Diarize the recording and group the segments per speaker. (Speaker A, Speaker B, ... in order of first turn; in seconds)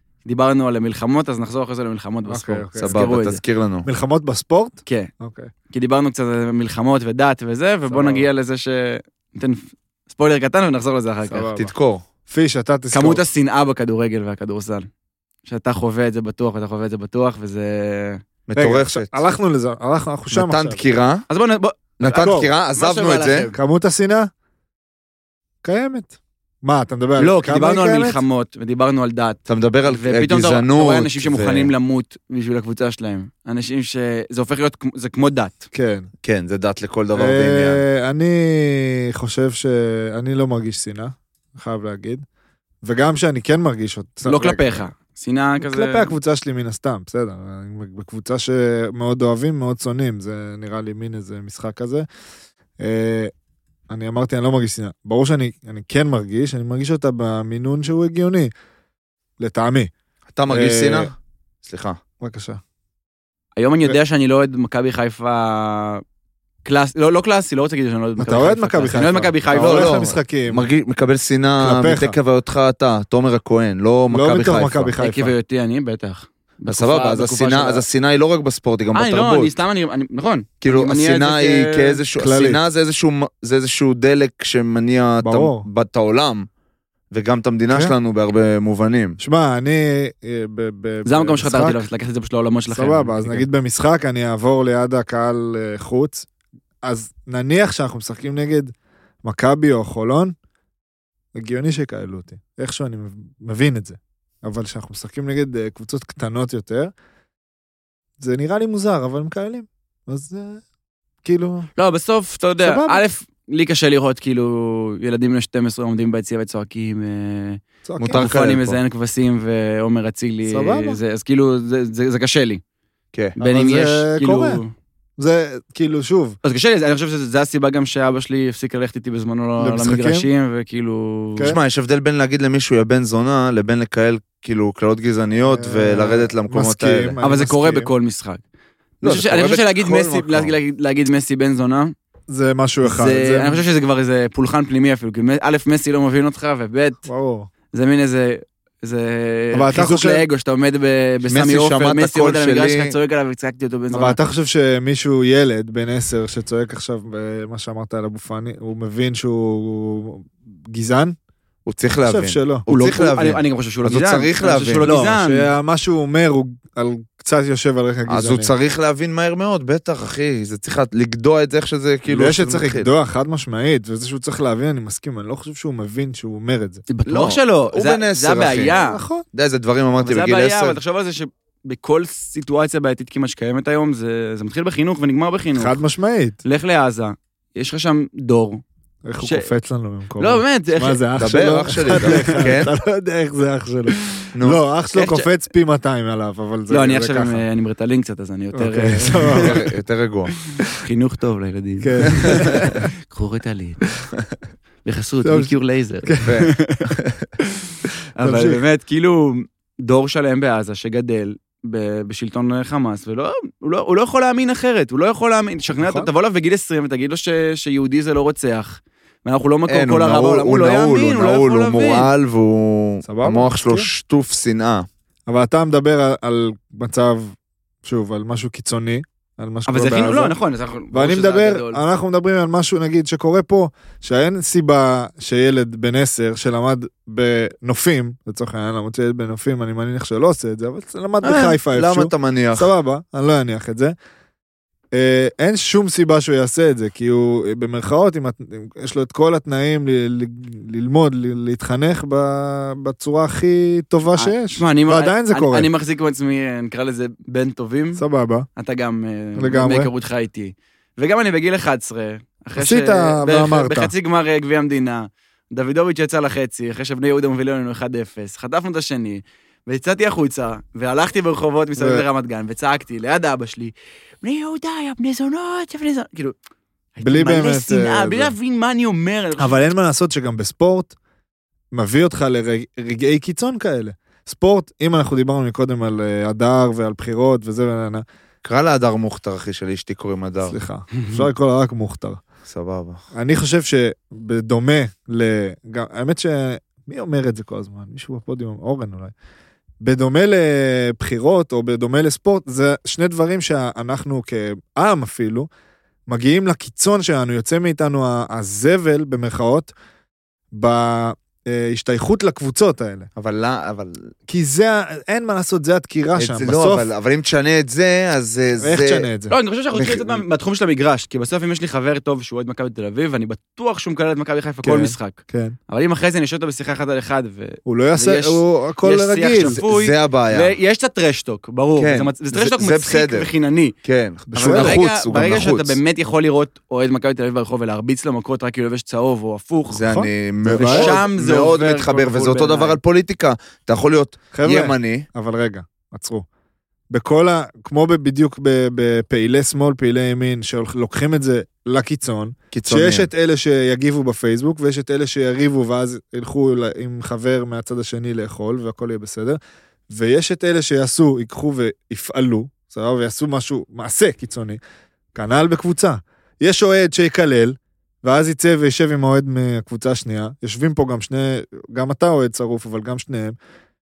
Speaker A: 0.2-3.4, 4.8-5.1, 5.7-11.5, 12.9-14.9, 15.4-18.2, 21.3-23.6, 27.2-35.6, 44.2-46.1, 63.5-66.0, 66.6-70.1, 75.0-77.8, 78.9-82.0, 91.0-93.5, 111.8-122.6, 123.4-124.7, 126.4-131.6, 137.2-138.4, 139.0-141.9, 142.8-147.0, 147.7-154.2, 162.7-165.5, 176.9-179.0, 180.0-185.8, 186.4-188.6, 189.2-189.5, 190.2-191.0, 191.9-192.5, 194.9-195.3, 196.7-199.5, 200.8-203.8, 204.8-206.9, 208.2-222.1, 229.7-231.8, 254.1-258.0, 258.6-276.3, 276.9-279.6, 319.3-333.7, 334.3-339.9, 340.5-342.8
Speaker B: 2.3-3.0, 3.8-5.5, 7.9-8.3, 11.3-11.7, 12.3-13.2, 18.6-20.8, 22.2-22.5, 23.5-24.3, 25.6-28.2, 35.7-36.1, 37.1-42.2, 42.8-44.8, 45.6-52.0, 52.8-53.3, 53.9-58.5, 59.4-59.9, 60.5-61.1, 62.2-62.6, 68.2-70.6, 71.6-72.2, 74.1-75.3, 82.2-82.6, 85.2-85.7, 89.2-91.8, 92.7-96.3, 96.8-100.3, 101.3-106.9, 108.2-110.6, 111.2-111.7, 112.6-113.0, 117.8-118.3, 120.5-121.0, 123.4-124.6, 125.2-126.4, 129.6-130.3, 135.4-137.9, 142.3-143.6, 147.1-147.5, 149.5-150.2, 153.9-161.2, 162.1-162.6, 164.8-168.5, 172.1-176.8, 178.7-179.2, 185.6-186.4, 189.0-197.4, 198.5-199.6, 201.8-202.8, 205.2-205.5, 206.0-206.3, 208.2-208.6, 215.7-216.1, 223.0-223.9, 225.3-230.3, 230.9-243.9, 244.9-255.7, 257.9-258.5, 259.4-259.9, 262.6-263.9, 271.8-272.0, 277.0-278.3, 279.4-280.9, 281.7-288.0, 290.4-292.2, 293.1-299.1, 299.8-305.5, 306.1-309.7, 310.5-313.1, 314.3-316.9, 318.6-319.3, 324.6-325.6, 327.6-329.6, 334.3-334.8, 339.9-340.9, 344.3-346.2, 346.9-359.4, 359.9-364.6, 365.1-373.4
Speaker C: 2.8-3.9, 11.6-12.0, 18.5-19.2, 20.3-21.2, 22.0-23.5, 29.5-31.7, 36.2-37.8, 60.3-61.1, 61.6-62.0, 69.5-74.9, 76.7-79.5, 80.6-86.5, 87.1-89.2, 118.0-118.8, 131.4-137.2, 139.0-140.5, 151.3-152.9, 161.7-164.8, 168.1-172.9, 177.1-178.7, 179.3-180.8, 191.2-192.7, 194.3-194.6, 199.3-200.3, 206.2-206.5, 219.7-224.9, 241.2-242.7, 288.4-290.6, 292.5-293.0, 313.1-314.1, 316.2-319.1, 319.7-320.2, 329.4-330.5, 331.8-333.3, 333.8-335.8, 339.7-345.1, 352.5-353.1